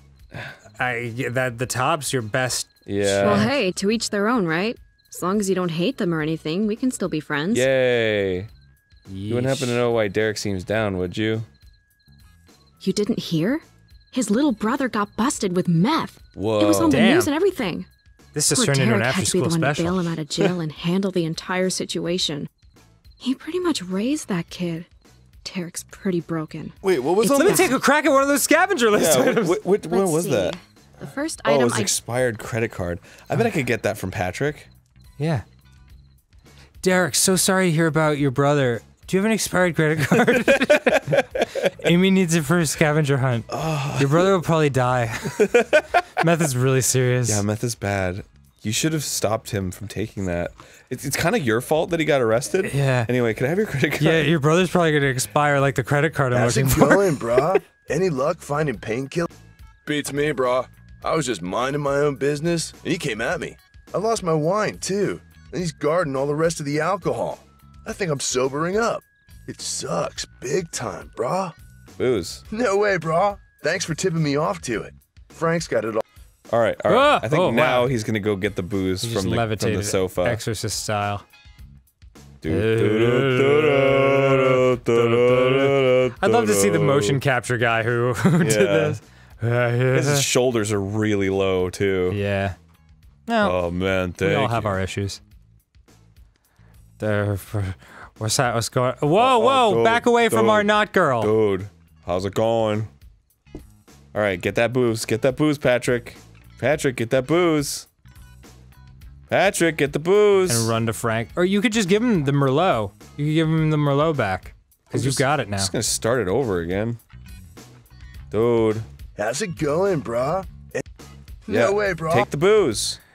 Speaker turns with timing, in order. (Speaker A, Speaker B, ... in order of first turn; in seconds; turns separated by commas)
Speaker A: 0.8-3.5, Speaker B: 2.9-3.5, Speaker C: 3.2-7.7, Speaker B: 7.5-8.5, Speaker A: 9.1-9.8, Speaker B: 9.3-11.5, Speaker C: 12.8-17.9, Speaker B: 16.4-17.1, Speaker A: 16.9-17.3, Speaker A: 18.3-20.1, Speaker C: 18.5-22.5, Speaker C: 23.2-24.9, Speaker C: 25.4-27.7, Speaker B: 26.8-27.8, Speaker A: 27.3-29.6, Speaker B: 28.9-30.6, Speaker C: 29.8-31.9, Speaker B: 31.4-34.7, Speaker A: 35.2-35.4, Speaker A: 36.8-45.5, Speaker B: 40.1-41.7, Speaker B: 43.5-44.4, Speaker B: 45.2-46.0, Speaker A: 46.2-47.4, Speaker B: 47.2-54.3, Speaker A: 52.6-53.1, Speaker A: 54.0-57.3, Speaker D: 56.3-59.3, Speaker D: 59.8-71.5, Speaker B: 72.0-72.4, Speaker D: 72.5-76.0, Speaker B: 76.5-80.4, Speaker A: 76.9-77.9, Speaker A: 79.0-81.2, Speaker B: 82.4-87.2, Speaker A: 82.5-90.3, Speaker B: 88.4-89.0, Speaker B: 89.9-92.2, Speaker A: 92.1-92.5, Speaker A: 93.3-93.6, Speaker B: 93.4-94.8, Speaker A: 94.2-95.2, Speaker A: 97.0-101.3, Speaker B: 99.2-102.9, Speaker B: 104.1-107.9, Speaker B: 109.3-110.7, Speaker A: 110.5-115.7, Speaker B: 114.9-117.0, Speaker B: 118.3-118.9, Speaker D: 119.2-120.8, Speaker D: 121.5-122.3, Speaker B: 121.5-123.0